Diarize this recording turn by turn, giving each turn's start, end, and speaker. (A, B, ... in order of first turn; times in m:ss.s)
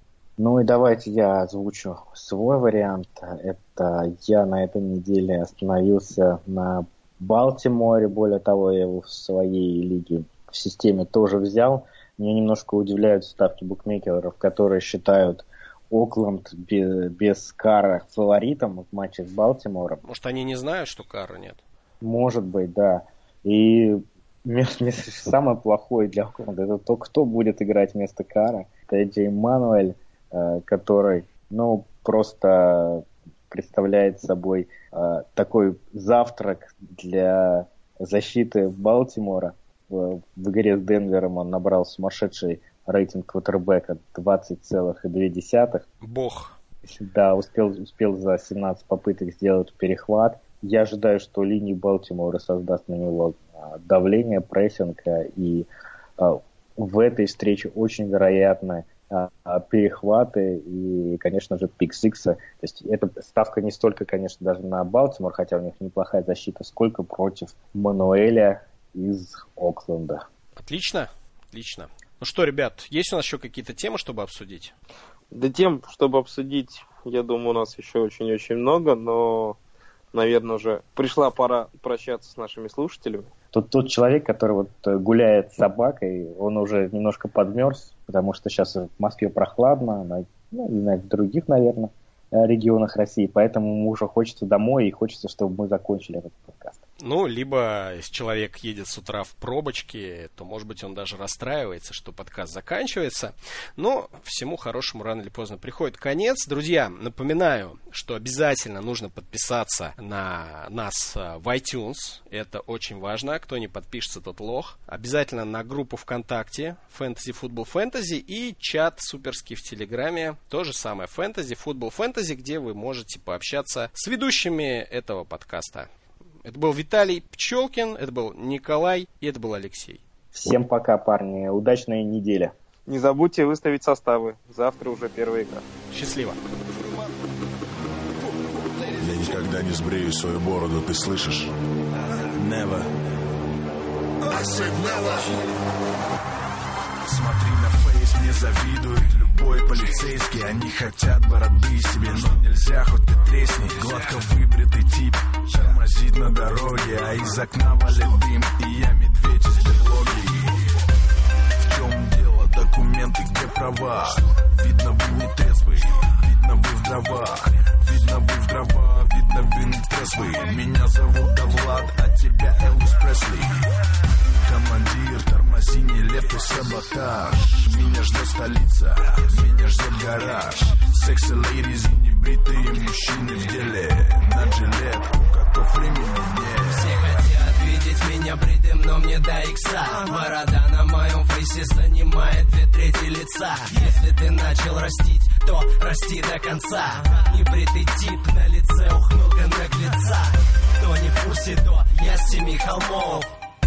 0:00.4-0:20.0 A
0:20.0-0:21.6 B
0:22.0-0:45.8 A
0:46.0-0:46.6 B
0:46.9-1:10.2 A
1:10.6-1:14.7 B
1:15.3-1:19.6 C
1:20.1-1:23.3 C
1:23.5-1:36.8 A
1:37.0-2:05.9 B
2:06.4-2:10.0 B
2:10.3-2:12.5 A
2:12.9-2:15.6 C
2:15.9-2:16.4 B
2:18.8-2:21.5 D
2:22.3-2:22.9 D
2:24.3-2:25.3 D
2:27.0-2:40.7 D
2:41.6-2:53.7 D
2:54.4-3:06.9 D
3:06.7-3:23.4 E